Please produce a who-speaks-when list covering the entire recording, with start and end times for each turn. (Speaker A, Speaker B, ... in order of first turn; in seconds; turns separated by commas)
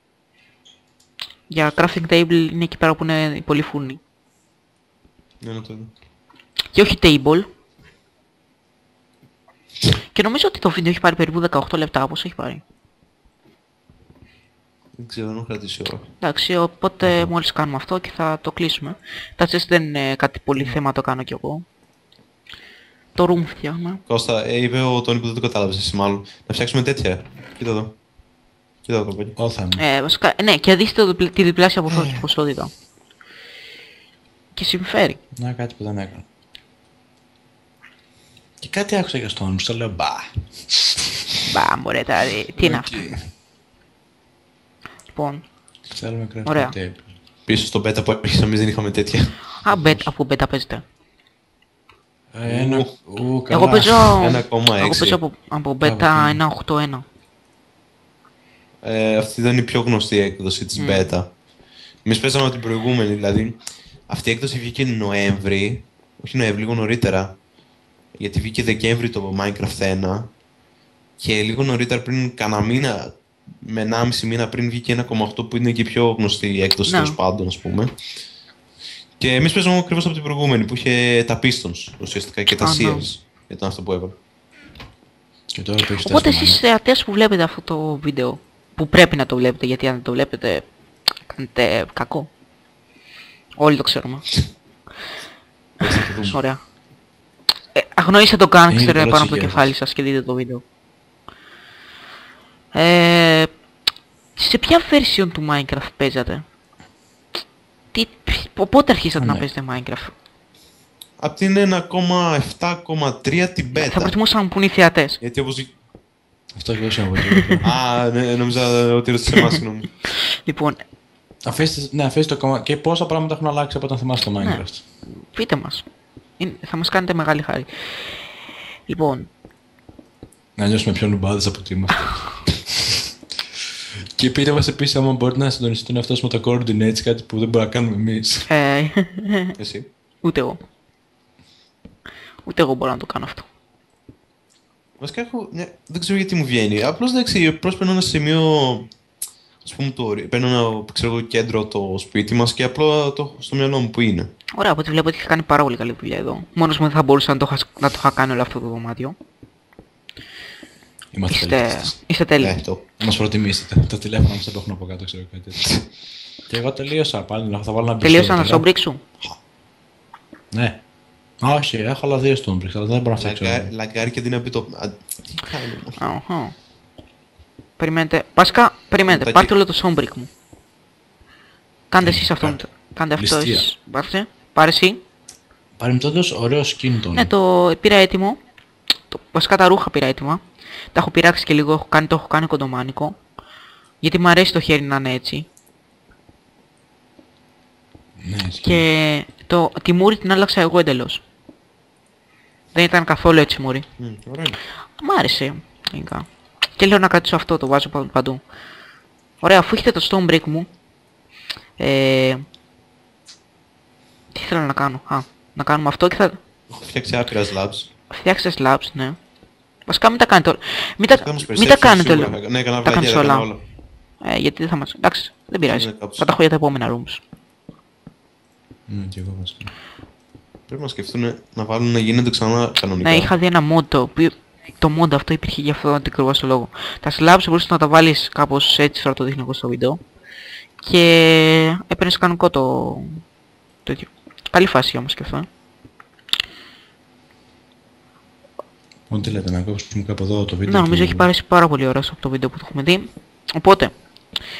Speaker A: 1.5-4.0, Speaker B: 5.4-5.9, Speaker A: 6.7-7.5, Speaker A: 10.1-12.6, Speaker B: 15.0-16.1, Speaker A: 16.2-21.6, Speaker C: 17.0-17.3, Speaker A: 23.1-24.0, Speaker B: 24.1-27.9, Speaker B: 28.9-29.4, Speaker C: 29.4-29.8, Speaker A: 29.8-32.7, Speaker C: 31.9-32.2, Speaker A: 34.5-35.2, Speaker C: 35.4-36.2, Speaker C: 38.6-41.1, Speaker A: 41.5-43.1, Speaker C: 42.6-43.2, Speaker A: 45.1-45.4, Speaker C: 45.9-47.1, Speaker A: 46.5-46.8, Speaker B: 47.5-49.6, Speaker A: 49.6-50.8, Speaker C: 49.7-50.1, Speaker C: 52.3-54.2, Speaker B: 52.5-52.9, Speaker A: 53.5-57.0, Speaker B: 54.2-55.2, Speaker C: 55.8-56.4, Speaker B: 58.8-61.3, Speaker A: 60.8-61.1, Speaker B: 62.0-63.6, Speaker B: 64.1-67.3, Speaker B: 68.2-70.3, Speaker B: 71.2-77.9, Speaker A: 76.9-77.2, Speaker B: 79.2-84.1, Speaker A: 82.6-83.0, Speaker C: 85.5-86.6, Speaker A: 86.0-90.7, Speaker A: 91.3-92.3, Speaker A: 93.6-94.3, Speaker B: 95.8-96.4, Speaker A: 96.3-96.6, Speaker A: 97.7-100.6, Speaker C: 98.7-99.7, Speaker A: 102.7-103.5, Speaker A: 104.4-106.4, Speaker A: 107.9-110.1, Speaker C: 109.2-109.5, Speaker B: 111.2-114.2, Speaker A: 113.7-115.2, Speaker B: 115.2-115.7, Speaker C: 116.5-117.7, Speaker A: 117.2-117.6, Speaker B: 117.6-119.9, Speaker A: 120.0-120.8, Speaker C: 121.5-124.8, Speaker A: 124.4-125.9, Speaker A: 126.4-128.3, Speaker A: 128.9-129.3, Speaker C: 130.6-133.0, Speaker C: 134.2-138.5, Speaker A: 138.5-139.5, Speaker B: 139.6-139.9, Speaker A: 140.2-140.6, Speaker A: 142.4-143.5, Speaker B: 145.0-148.9, Speaker B: 149.6-154.3, Speaker A: 154.5-159.2, Speaker C: 161.1-161.9, Speaker A: 161.3-162.6, Speaker B: 162.4-162.8, Speaker C: 163.0-165.8, Speaker C: 166.5-168.7, Speaker A: 168.0-169.0, Speaker C: 170.5-170.8, Speaker C: 171.4-173.7, Speaker B: 173.2-176.0, Speaker A: 176.0-176.5, Speaker A: 177.8-180.3, Speaker B: 179.1-179.5, Speaker A: 181.9-185.0, Speaker C: 182.0-182.6, Speaker C: 183.2-183.7, Speaker C: 185.8-187.3, Speaker A: 187.1-188.4, Speaker A: 189.1-190.4, Speaker A: 190.9-193.2, Speaker A: 194.0-195.5, Speaker C: 198.2-198.8, Speaker A: 198.6-201.2, Speaker A: 202.7-203.8, Speaker B: 204.0-204.6, Speaker A: 205.0-206.3, Speaker A: 206.8-208.4, Speaker A: 209.4-210.7, Speaker A: 211.8-212.4, Speaker A: 214.3-216.4, Speaker B: 216.7-217.9, Speaker A: 218.1-219.2, Speaker A: 219.9-223.5, Speaker B: 221.1-223.6, Speaker A: 224.2-227.2, Speaker B: 225.6-226.3, Speaker C: 228.9-229.7, Speaker B: 230.7-233.3, Speaker A: 233.0-240.0, Speaker A: 240.8-243.2, Speaker A: 243.8-245.5, Speaker C: 249.1-251.3, Speaker A: 250.7-253.9